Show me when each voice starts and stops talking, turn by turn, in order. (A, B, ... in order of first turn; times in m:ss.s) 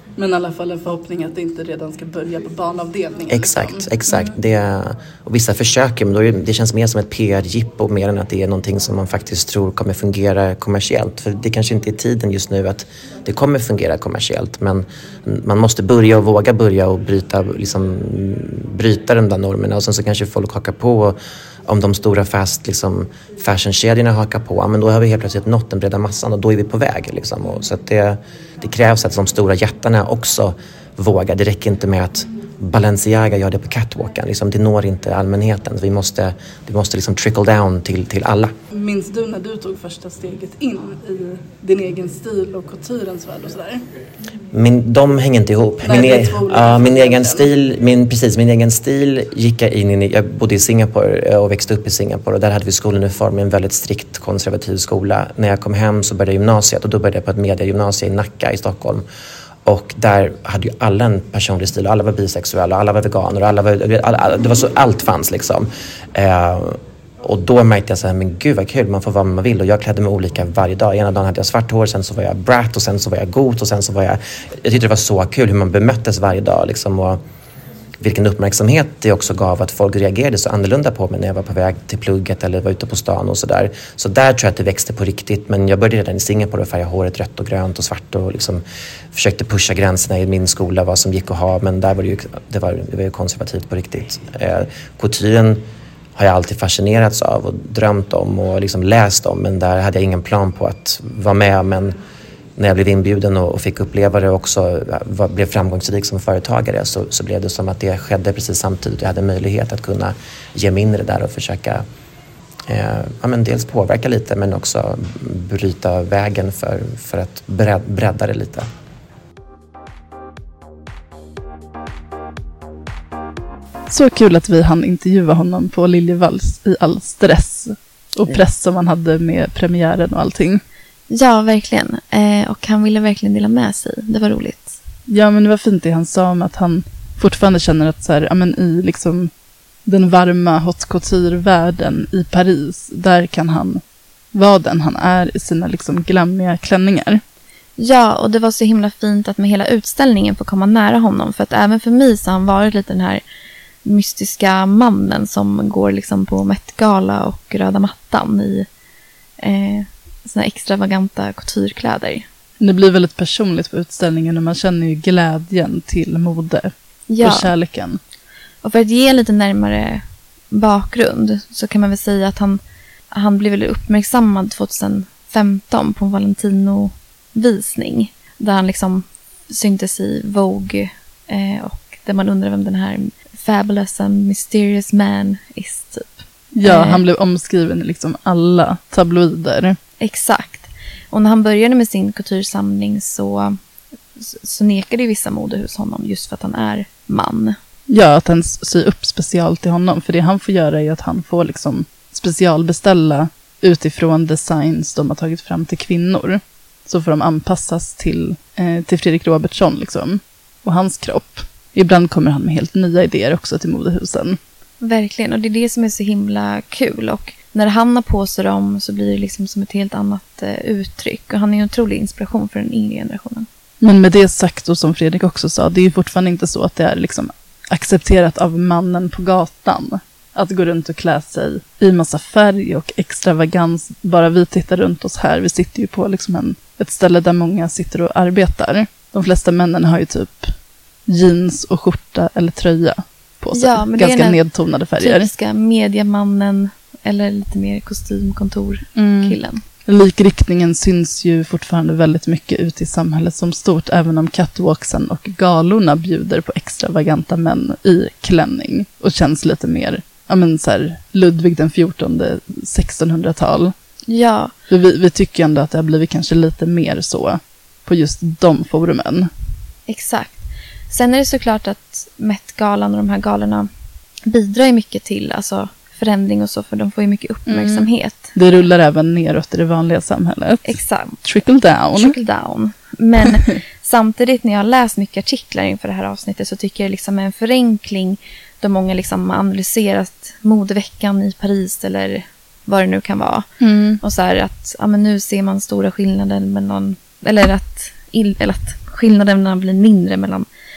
0:00.2-0:04.4 A
0:03.3-0:38.5 B
0:38.7-0:43.8 A
0:44.5-0:59.0 B
0:45.8-0:47.5 A
0:59.6-1:17.2 B
1:18.0-1:28.6 B
1:29.1-1:35.6 B
1:36.2-1:42.0 B
1:42.6-1:51.8 B
1:52.7-1:58.7 B
2:03.9-2:10.6 A
2:11.1-2:14.8 C
2:15.1-2:19.3 A
2:19.8-2:23.8 A
2:24.3-2:27.2 A
2:27.8-2:33.2 C
2:33.8-2:38.7 C
2:39.4-2:42.2 C
2:42.6-2:48.0 A
2:47.1-2:47.5 C
2:48.6-2:52.6 C
2:53.1-3:07.0 C
3:06.5-3:09.8 A
3:10.0-3:13.6 C
3:14.2-3:17.6 C
3:17.9-3:34.4 A
3:34.8-3:43.5 C
3:43.8-4:00.5 A
4:01.1-4:05.3 A
4:03.5-4:04.4 C
4:05.0-4:09.6 C
4:08.9-4:23.7 A
4:24.1-4:24.5 C
4:24.7-4:29.3 A
4:29.9-4:33.7 C
4:34.2-4:38.3 C
4:37.5-4:42.1 A
4:40.6-4:41.2 C
4:41.9-4:53.5 C
4:53.6-4:54.0 A
4:54.0-5:00.4 C